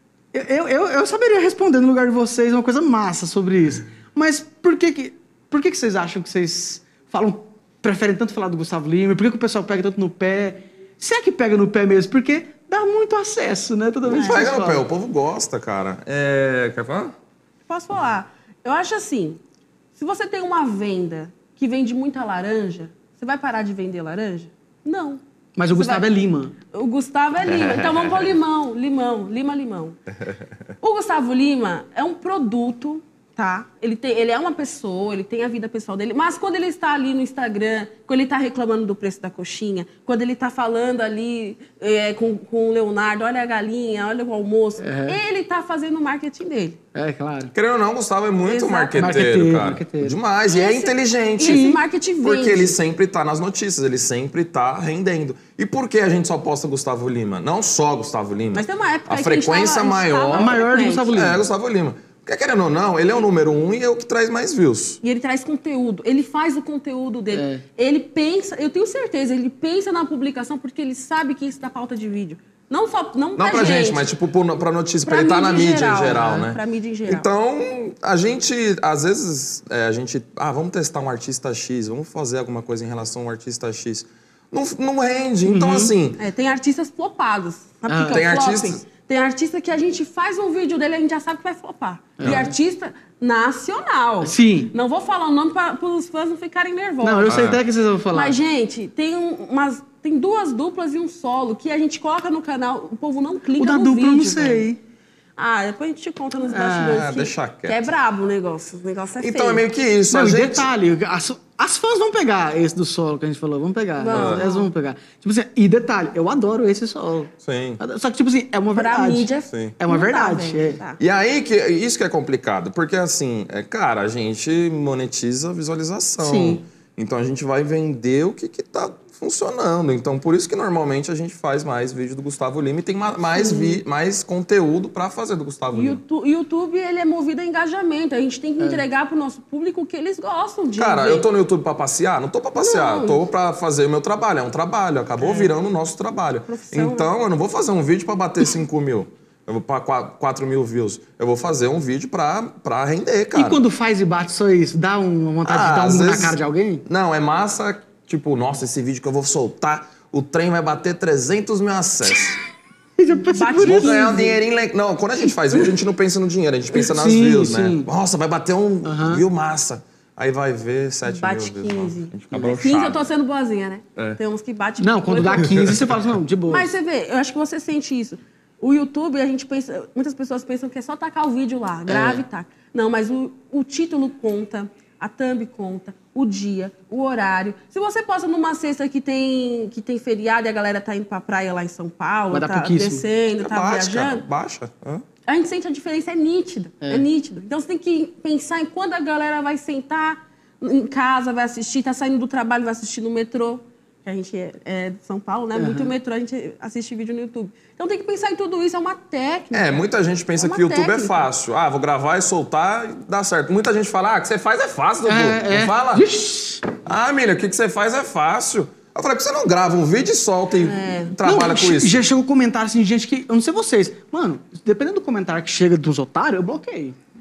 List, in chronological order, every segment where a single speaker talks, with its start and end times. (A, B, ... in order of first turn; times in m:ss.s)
0:00.3-0:14.8 A
0:14.1-0:17.1 B
0:14.1-0:14.5 C
0:17.7-0:19.4 C
0:20.0-0:25.2 C
0:25.6-0:26.5 A
0:25.7-0:26.1 C
0:26.7-0:30.0 C
0:27.4-0:28.3 B
0:30.8-0:46.8 C
0:44.8-0:45.2 A
0:46.9-0:47.5 A
0:47.5-0:51.7 B
0:48.4-0:49.3 C
0:49.0-0:50.2 A
0:50.5-0:52.8 C
0:51.4-0:51.8 A
0:52.2-1:05.0 B
0:58.5-1:01.2 C
1:00.3-1:01.4 A
1:05.0-1:14.0 C
1:07.3-1:07.6 A
1:13.4-1:26.2 B
1:15.0-1:17.3 C
1:16.1-1:16.4 A
1:25.4-1:25.9 A
1:26.2-1:37.5 C
1:27.9-1:28.2 A
1:28.0-1:28.8 B
1:32.2-1:32.5 A
1:34.2-1:34.7 A
1:37.0-1:38.4 A
1:37.3-1:37.6 B
1:38.1-1:44.6 C
1:43.6-1:44.8 A
1:45.4-1:49.6 C
1:46.5-1:47.0 A
1:46.9-1:47.9 B
1:49.2-1:50.7 B
1:50.1-2:00.8 A
1:54.0-1:54.7 C
1:54.1-1:54.4 B
1:57.4-1:57.8 B
1:58.7-2:01.0 C
2:01.0-2:16.0 B
2:06.2-2:06.6 A
2:13.3-2:13.8 C
2:15.7-2:21.3 C
2:20.8-2:33.6 B
2:22.6-2:23.2 C
2:25.2-2:25.5 A
2:26.5-2:27.1 C
2:33.3-2:36.8 A
2:35.4-2:42.4 B
2:43.0-2:44.0 A
2:43.3-2:44.4 C
2:43.6-2:53.0 B
2:46.8-2:47.9 A
2:48.8-2:49.2 A
2:51.0-2:55.7 C
2:54.8-2:56.7 A
2:55.4-2:55.9 B
2:56.5-3:14.2 C
3:01.9-3:02.2 A
3:12.3-3:13.0 A
3:13.4-3:15.0 B
3:15.2-3:29.8 C
3:25.5-3:25.9 A
3:29.5-3:36.0 B
3:30.4-3:31.2 C
3:35.0-3:36.7 A
3:36.8-3:42.0 B
3:40.6-3:41.2 C
3:41.2-3:47.0 A